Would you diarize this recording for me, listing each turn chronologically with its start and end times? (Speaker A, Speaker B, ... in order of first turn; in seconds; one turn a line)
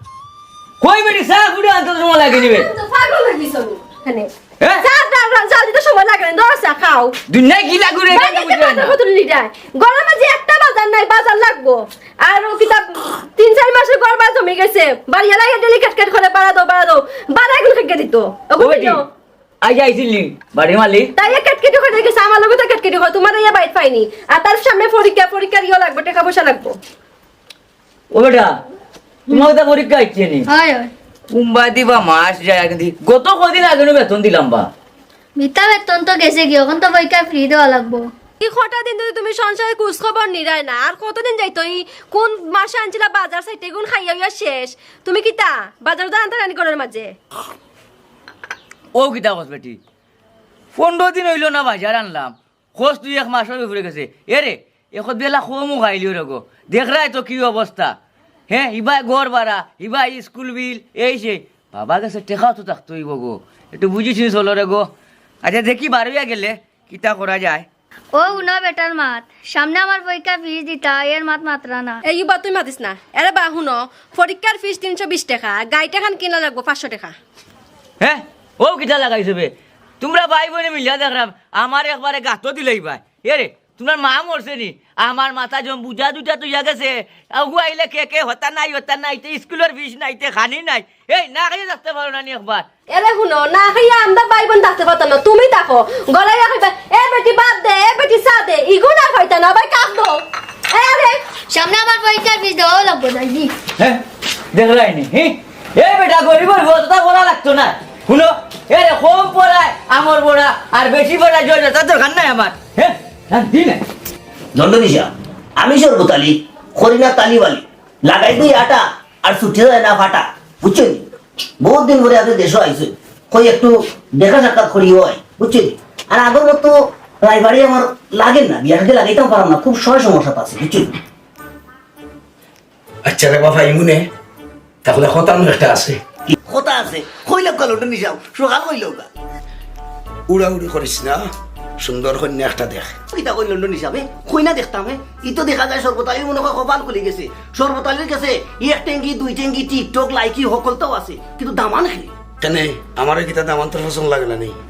Speaker A: 0.8-2.7
Speaker B: 2.3-7.2
Speaker A: 7.3-9.0
Speaker B: 8.1-19.1
Speaker A: 18.6-19.0
Speaker A: 19.6-21.1
Speaker B: 21.2-26.8
Speaker A: 28.1-28.6
Speaker A: 29.3-30.5
Speaker C: 30.5-30.9
Speaker A: 31.3-34.7
Speaker C: 35.4-38.1
Speaker B: 38.4-47.1
Speaker A: 49.0-49.8
Speaker A: 50.7-58.0
Speaker A: 58.5-64.9
Speaker A: 65.4-67.7
Speaker C: 68.2-72.0
Speaker B: 72.0-77.2
Speaker A: 78.0-92.7
Speaker B: 92.9-101.2
Speaker C: 101.5-103.5
Speaker A: 103.8-104.0
Speaker A: 104.5-113.8
Speaker D: 114.5-121.0
Speaker D: 121.6-131.0
Speaker E: 133.1-134.1
Speaker E: 134.8-136.0
Speaker D: 136.3-139.1
Speaker E: 140.3-141.3
Speaker E: 141.8-143.0
Speaker D: 143.1-152.1
Speaker E: 152.4-154.6